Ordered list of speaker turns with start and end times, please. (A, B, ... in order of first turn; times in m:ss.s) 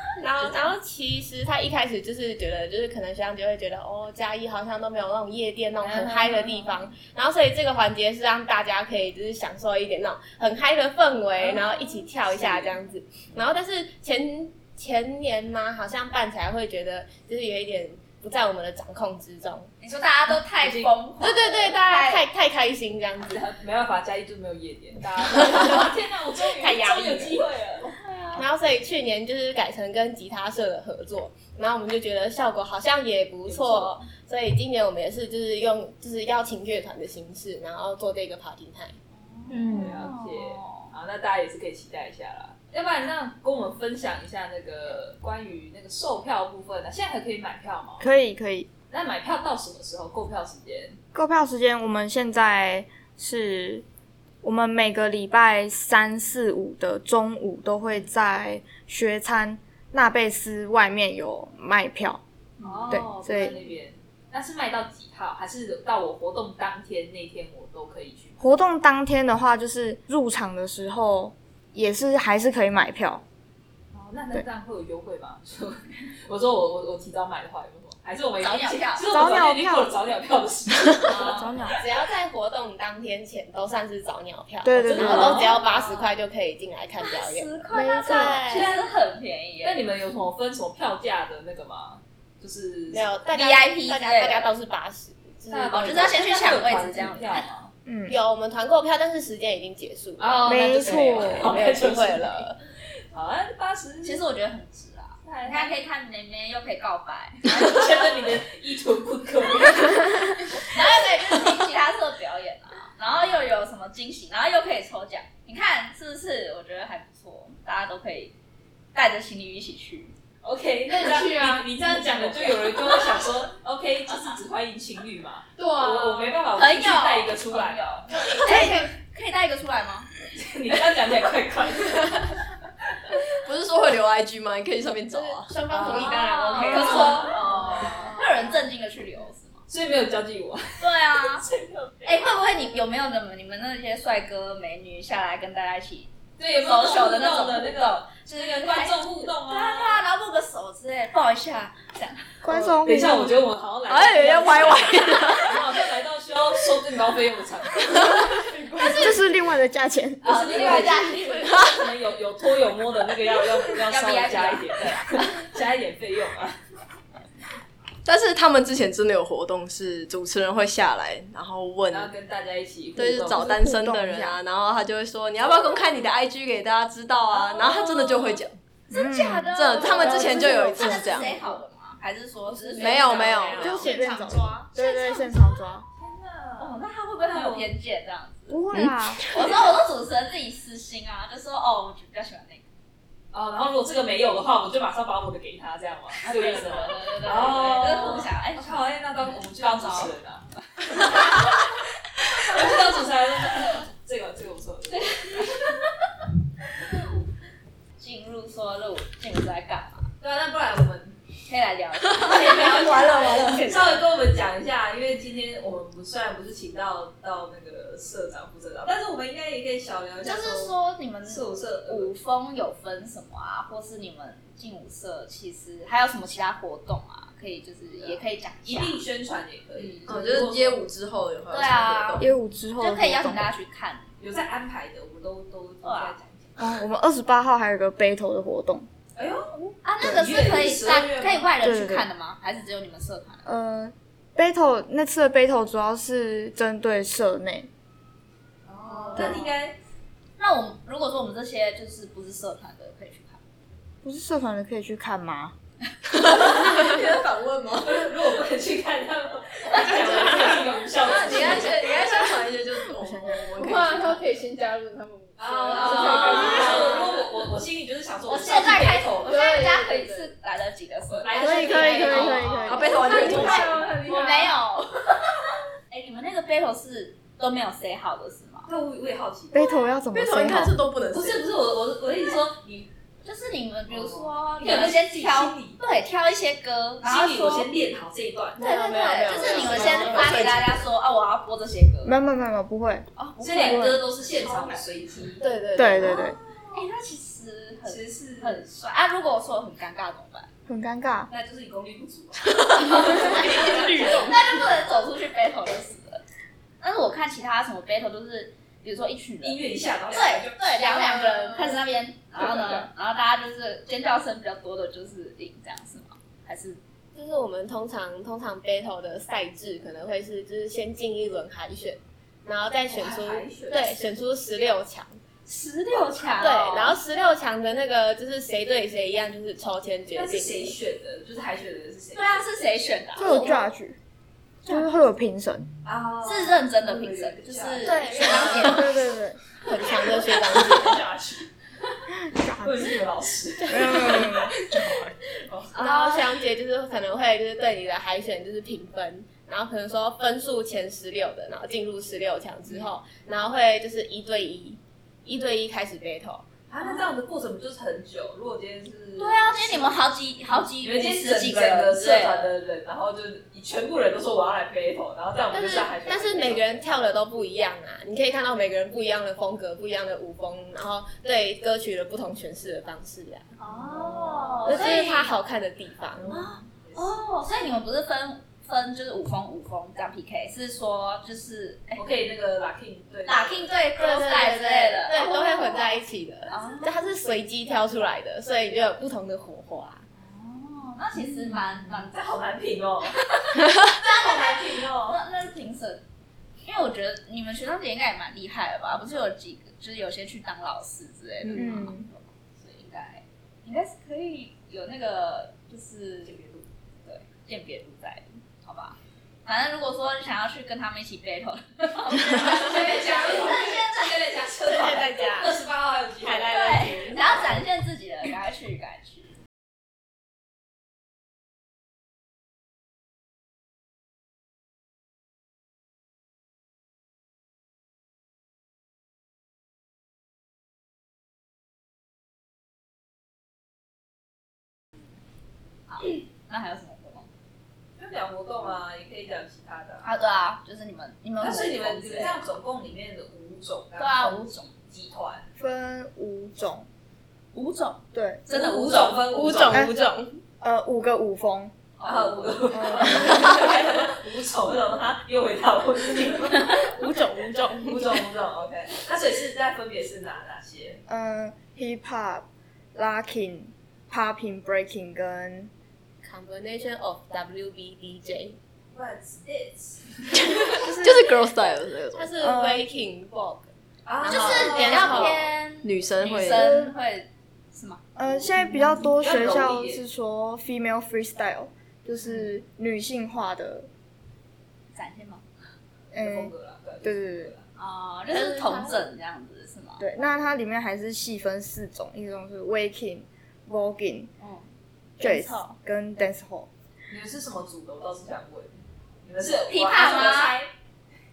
0:00.2-0:19.7 A
0:05.8-0:06.7 B
0:11.4-0:11.6 C
0:12.3-0:12.7 C
0:19.8-0:22.2 B
0:20.6-0:20.9 C
0:21.2-0:23.4 A
0:23.3-0:27.9 C
0:25.4-0:25.8 A
0:26.5-0:27.4 A
0:27.8-0:28.4 B
0:28.3-0:39.0 A
0:33.4-0:34.0 C
0:39.2-0:40.9 B
0:39.5-0:40.0 D
0:39.7-0:48.0 C
0:48.0-0:48.7 D
0:48.9-0:51.0 C
0:51.1-0:53.8 D
0:54.4-1:02.2 D
1:02.6-1:03.0 B
1:02.6-1:08.4 C
1:02.9-1:03.6 D
1:08.4-1:13.2 D
1:13.9-1:21.8 C
1:18.4-1:19.0 B
1:19.1-1:19.9 D
1:21.0-1:21.6 B
1:21.1-1:21.8 D
1:21.7-1:28.7 A
1:24.6-1:25.4 D
1:24.8-1:25.6 C
1:25.0-1:26.1 B
1:27.0-1:29.8 B
1:27.7-1:28.4 D
1:29.6-1:33.1 C
1:32.9-1:36.2 A
1:33.3-1:34.5 B
1:35.5-1:37.7 C
1:35.7-1:37.5 B
1:37.8-1:38.2 D
1:38.1-1:42.6 A
1:40.2-1:42.5 C
1:40.4-1:41.6 D
1:43.1-1:44.2 C
1:44.0-1:48.3 B
1:45.2-1:45.8 C
1:47.4-1:50.6 C
1:50.6-1:58.3 B
1:58.9-2:00.1 B
2:00.4-2:08.7 C
2:00.8-2:02.5 E
2:04.1-2:04.4 B
2:05.6-2:06.4 E
2:06.6-2:10.1 B
2:08.4-2:08.7 A
2:10.3-2:12.4 C
2:13.4-2:15.6 F
2:15.1-2:17.4 A
2:15.7-2:18.1 C
2:15.8-2:19.6 B
2:17.7-2:18.2 E
2:19.7-2:22.2 C
2:20.8-2:21.4 B
2:22.0-2:32.4 B
2:26.4-2:30.0 C
2:32.4-2:33.3 D
2:32.8-2:39.2 C
2:33.9-2:35.6 F
2:38.0-2:38.2 F
2:38.8-2:39.1 B
2:38.8-2:40.9 D
2:40.2-2:41.7 B
2:40.2-2:46.6 C
2:43.8-2:45.4 B
2:48.0-2:52.1 F
2:51.9-2:53.5 C
2:53.0-2:58.6 F
2:53.3-2:54.4 D
2:57.4-2:58.2 C
2:57.4-2:58.0 B
2:58.9-3:03.6 B
2:58.9-3:01.3 D
2:59.5-3:01.4 F
3:02.6-3:04.7 C
3:02.7-3:03.9 F
3:03.6-3:05.9 D
3:04.7-3:05.6 B
3:05.9-3:07.7 C
3:06.6-3:12.6 B
3:08.5-3:09.2 D
3:13.3-3:21.6 C
3:16.2-3:18.8 B
3:19.6-3:20.1 B
3:22.3-3:25.7 C
3:24.9-3:25.9 B
3:28.0-3:30.1 B
3:30.2-3:31.2 C
3:31.5-3:34.0 B
3:32.2-3:42.1 C
3:32.8-3:33.7 F
3:40.2-3:49.0 B
3:48.0-3:50.8 C
3:49.8-3:50.4 B
3:50.0-3:52.3 F
3:51.5-3:52.2 B
3:52.2-3:53.5 D
3:52.8-3:54.0 B
3:54.2-3:56.7 C
3:55.8-3:56.2 B
3:56.6-3:58.8 D
3:59.2-4:01.5 C
3:59.8-4:03.4 B
4:01.6-4:02.1 D
4:03.4-4:07.7 D
4:08.7-4:09.7 C
4:09.1-4:09.5 B
4:10.4-4:13.4 B
4:14.0-4:15.5 D
4:16.0-4:18.2 F
4:17.8-4:21.9 C
4:19.6-4:22.4 B
4:19.7-4:24.2 F
4:23.0-4:23.5 D
4:23.6-4:27.2 E
4:25.4-4:29.4 C
4:25.7-4:27.2 B
4:28.2-4:38.7 B
4:29.2-4:30.3 E
4:31.1-4:33.9 C
4:31.3-4:32.9 D
4:32.6-4:33.8 F
4:33.0-4:34.6 E
4:38.7-4:39.8 C
4:39.5-4:40.8 D
4:40.1-4:41.5 F
4:41.1-4:42.9 C
4:43.2-4:47.7 B
4:43.9-4:45.8 C
4:47.0-4:48.6 C
4:48.6-4:50.6 A
4:48.6-4:52.2 B
4:49.3-4:50.4 C
4:49.5-4:50.8 F
4:52.0-4:53.1 D
4:53.2-4:54.8 B
4:53.4-4:55.4 C
4:53.6-4:54.0 D
4:55.4-4:56.3 A
4:55.8-4:56.4 D
4:56.0-4:56.8 C
4:56.7-5:00.5 B
4:57.8-4:58.6 C
5:00.7-5:01.3 D
5:01.3-5:04.6 C
5:02.8-5:06.2 B
5:06.8-5:09.6 B
5:09.4-5:11.3 C
5:10.1-5:16.8 B
5:11.0-5:11.8 E
5:17.1-5:25.2 A
5:22.9-5:23.9 C
5:25.4-5:27.0 B
5:26.2-5:26.6 C
5:26.3-5:30.7 A
5:30.1-5:32.5 C
5:32.1-5:33.6 B
5:33.2-5:34.0 D
5:34.6-5:34.9 B
5:34.6-5:35.7 D
5:35.8-5:38.9 C
5:36.2-5:38.9 B
5:37.8-5:38.9 A
5:38.4-5:39.4 D
5:39.6-5:41.0 A
5:39.7-5:41.5 C
5:42.2-5:43.0 D
5:42.4-5:46.1 C
5:43.6-5:45.1 D
5:45.7-5:56.4 A
5:45.8-5:46.1 B
5:56.7-6:00.0 C
5:59.2-6:02.5 B
6:00.8-6:06.8 C
6:05.5-6:13.5 A
6:13.6-6:15.3 B
6:13.6-6:15.2 C
6:14.6-6:16.4 A
6:16.2-6:17.2 C
6:16.3-6:22.0 B
6:22.0-6:23.6 C
6:23.3-6:27.0 B
6:24.0-6:30.0 A
6:30.2-6:32.2 B
6:31.2-6:35.2 C
6:33.6-6:36.0 B
6:36.6-6:46.4 B
6:41.5-6:42.1 D
6:46.2-6:46.6 C
6:47.0-6:55.5 B
6:52.2-6:57.6 C
6:54.7-6:55.5 A
6:56.2-6:57.4 A
6:56.5-6:59.4 B
7:15.9-7:17.3 B
7:18.0-7:20.0 C
7:20.0-7:22.4 B
7:21.4-7:25.5 C
7:24.0-7:24.7 B
7:25.6-7:26.9 D
7:27.5-7:29.2 B
7:28.1-7:28.4 D
7:28.5-7:29.8 C
7:29.3-7:30.4 A
7:29.7-7:29.9 D
7:30.6-7:31.7 D
7:32.0-7:41.0 C
7:32.0-7:32.5 B
7:32.7-7:33.8 D
7:36.5-7:36.8 B
7:37.0-7:38.1 A
7:41.1-7:45.7 D
7:46.2-7:48.6 A
7:48.9-7:50.9 C
7:50.5-7:52.3 F
7:52.1-7:55.5 A
7:52.4-7:52.8 D
7:54.0-7:55.4 C
7:54.2-7:58.4 B
7:55.8-7:56.7 F
7:56.5-7:56.9 D
7:58.2-8:03.9 D
7:58.8-8:00.0 C
8:04.9-8:05.5 B
8:06.1-8:07.5 D
8:06.1-8:07.7 C
8:07.8-8:10.0 B
8:08.3-8:09.0 A
8:10.0-8:14.3 D
8:14.4-8:14.7 B
8:15.2-8:16.7 D
8:15.2-8:15.8 B
8:17.1-8:18.7 C
8:19.2-8:20.7 C
8:19.7-8:20.6 B